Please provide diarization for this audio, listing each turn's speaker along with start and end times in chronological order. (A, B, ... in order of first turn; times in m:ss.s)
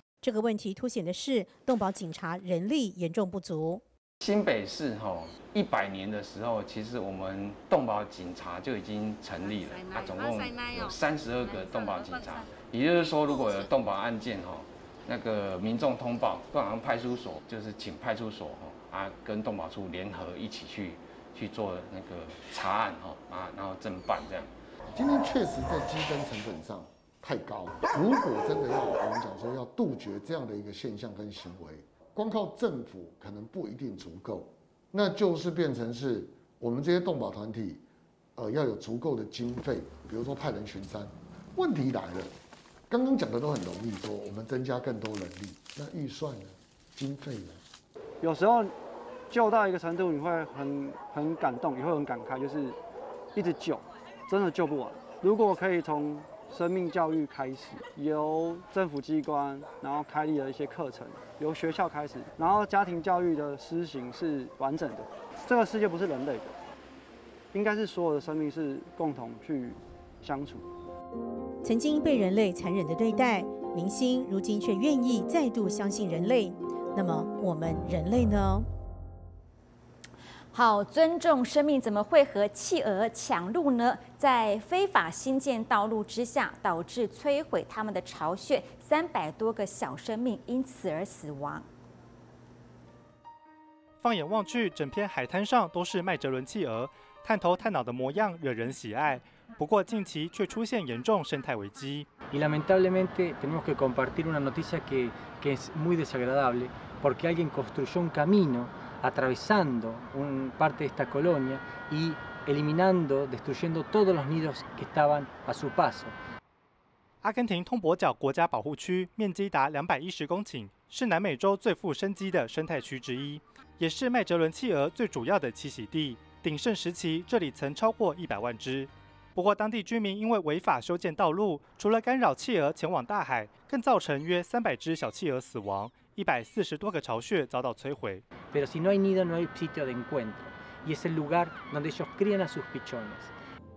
0:00.2-0:03.8 A
0:04.2-0:24.5 B
0:09.9-0:11.0 C
0:11.5-0:12.2 C
0:25.0-0:37.8 D
0:38.4-0:42.3 D
0:42.9-0:47.6 D
0:48.2-0:48.7 C
0:49.3-0:52.8 C
0:53.4-1:06.5 C
1:07.5-1:10.6 C
1:11.6-1:18.7 A
1:20.5-1:31.7 E
1:34.0-1:42.1 F
1:42.2-1:56.2 G
1:57.2-2:18.2 F
2:18.5-2:23.3 G